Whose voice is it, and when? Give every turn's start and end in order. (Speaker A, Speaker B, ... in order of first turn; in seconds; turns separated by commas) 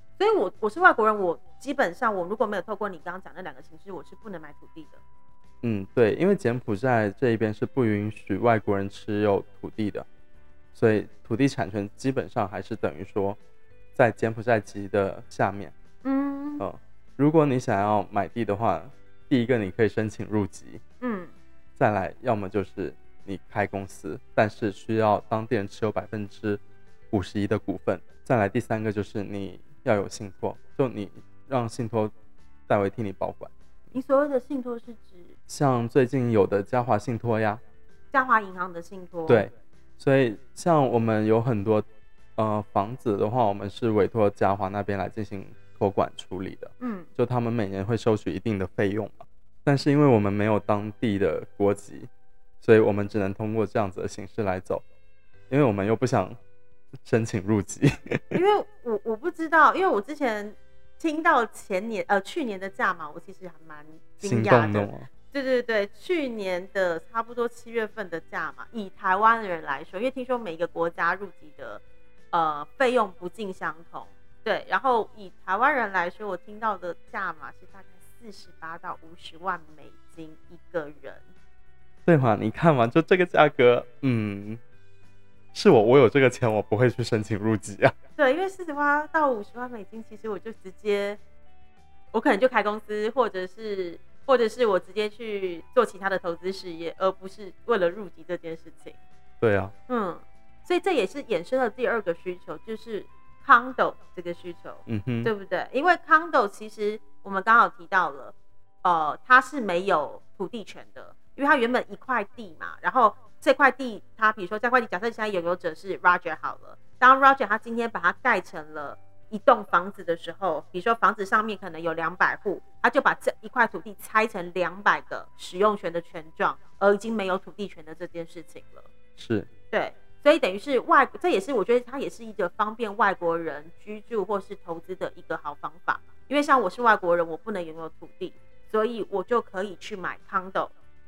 Speaker A: 0.2-5.0, Speaker B: 5.6-10.1, Speaker B: 10.7-13.4, Speaker B: 13.9-15.7, Speaker A: 16.0-16.6, Speaker B: 16.6-20.8, Speaker A: 21.0-21.3, Speaker B: 21.8-32.1, Speaker B: 32.7-33.5, Speaker A: 33.9-35.3, Speaker B: 35.5-37.6, Speaker A: 38.1-39.5, Speaker B: 39.3-52.1, Speaker A: 46.8-47.1, Speaker B: 52.6-54.8, Speaker B: 55.5-56.4, Speaker B: 57.0-58.4, Speaker A: 58.3-81.2, Speaker B: 64.2-65.1, Speaker B: 82.1-84.6, Speaker B: 85.5-87.9, Speaker A: 88.2-91.2, Speaker A: 92.1-99.0, Speaker B: 99.4-99.7, Speaker A: 99.9-128.9, Speaker B: 104.8-105.3, Speaker B: 129.2-129.5, Speaker A: 129.7-140.7